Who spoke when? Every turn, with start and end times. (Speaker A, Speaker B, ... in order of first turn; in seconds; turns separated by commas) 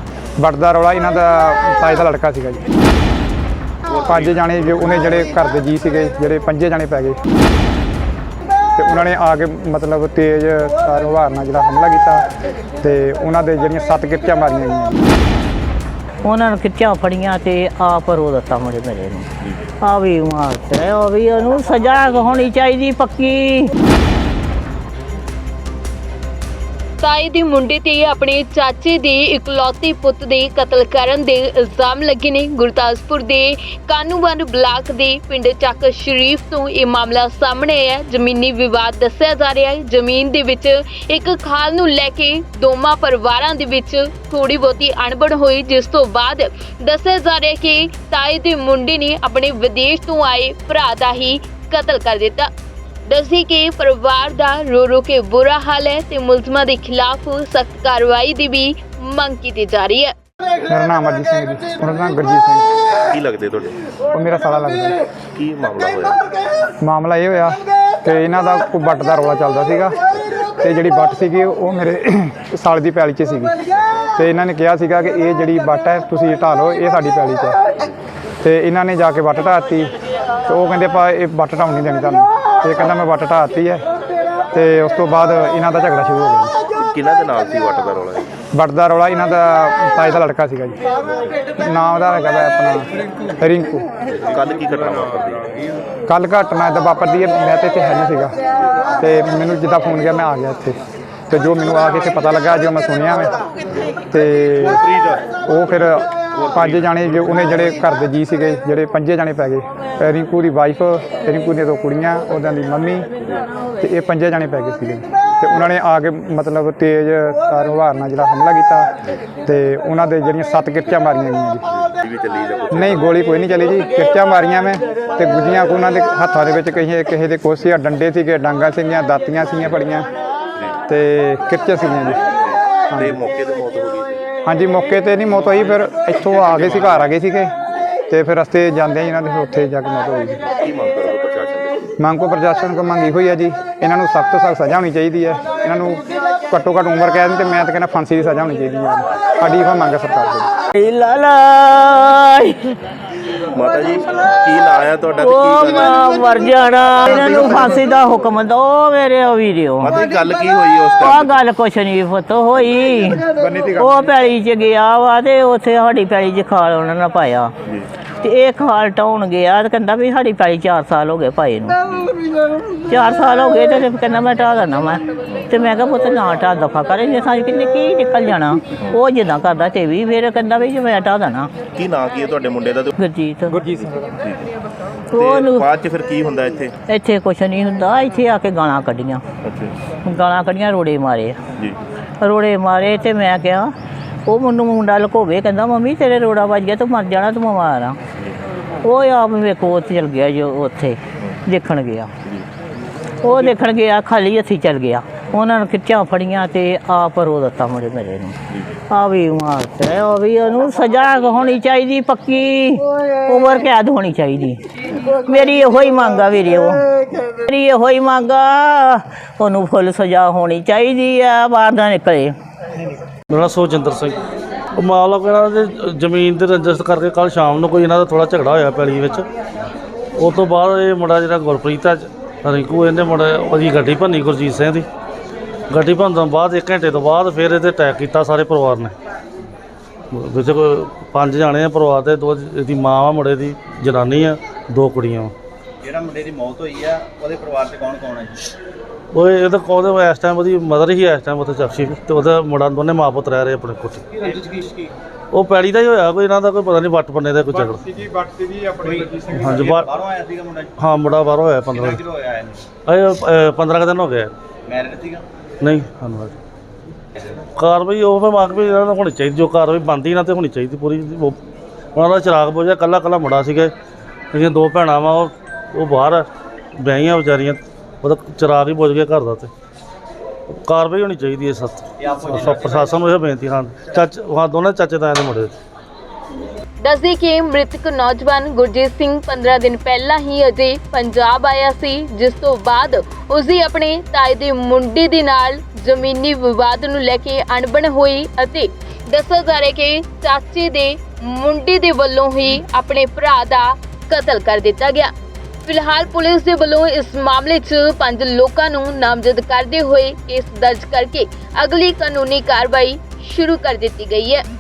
Speaker A: 0.4-2.6, Speaker A: 3.9-7.2, Speaker A: 8.8-12.3, Speaker A: 12.8-15.0, Speaker B: 16.2-19.3, Speaker B: 19.8-23.7, Speaker C: 27.0-52.5, Speaker C: 53.1-60.1, Speaker A: 60.7-62.7, Speaker D: 63.1-63.8, Speaker A: 64.1-65.0, Speaker D: 65.3-66.2, Speaker A: 66.8-70.0, Speaker A: 70.6-73.5, Speaker A: 74.2-77.6, Speaker A: 78.4-79.9, Speaker A: 80.5-83.8, Speaker A: 84.5-86.5, Speaker D: 86.8-88.3, Speaker A: 88.5-90.8, Speaker A: 91.6-93.9, Speaker D: 94.1-95.5, Speaker A: 96.1-98.4, Speaker A: 98.9-100.8, Speaker A: 101.3-103.4, Speaker A: 104.1-113.1, Speaker D: 113.2-113.5, Speaker A: 113.8-118.9, Speaker A: 119.5-121.7, Speaker D: 121.8-123.1, Speaker A: 122.7-130.1, Speaker D: 130.6-130.8, Speaker A: 130.9-132.2, Speaker D: 132.3-134.2, Speaker A: 132.9-133.2, Speaker A: 134.4-137.5, Speaker D: 136.3-137.0, Speaker A: 138.1-140.5, Speaker D: 140.5-141.8, Speaker A: 142.0-150.5, Speaker B: 150.7-152.8, Speaker D: 153.5-156.1, Speaker B: 155.2-159.9, Speaker D: 159.8-161.4, Speaker B: 161.0-167.5, Speaker A: 163.4-163.9, Speaker B: 168.2-171.9, Speaker B: 172.9-181.5, Speaker D: 181.7-182.9, Speaker B: 183.0-183.6, Speaker A: 183.5-184.2, Speaker B: 185.1-185.7, Speaker D: 185.1-186.7, Speaker B: 186.9-189.2, Speaker D: 189.4-189.8, Speaker B: 190.1-191.4, Speaker B: 192.2-193.7, Speaker B: 194.3-198.0, Speaker B: 198.8-202.1, Speaker B: 203.2-208.4, Speaker B: 208.9-222.3, Speaker E: 223.3-224.2, Speaker E: 224.8-229.3, Speaker E: 230.2-234.9, Speaker E: 235.7-239.0, Speaker E: 240.1-245.3, Speaker F: 245.8-248.5, Speaker E: 249.1-254.2, Speaker F: 254.2-254.9, Speaker E: 255.3-257.8, Speaker A: 257.5-259.6, Speaker F: 258.8-260.7, Speaker E: 259.4-259.9, Speaker E: 260.8-262.0, Speaker F: 261.7-262.7, Speaker E: 262.9-264.3, Speaker F: 264.7-265.2, Speaker E: 265.6-266.4, Speaker E: 267.6-271.4, Speaker E: 271.9-273.7, Speaker E: 274.3-279.5, Speaker E: 280.5-285.6, Speaker F: 282.0-283.1, Speaker C: 286.8-305.1, Speaker C: 305.7-314.4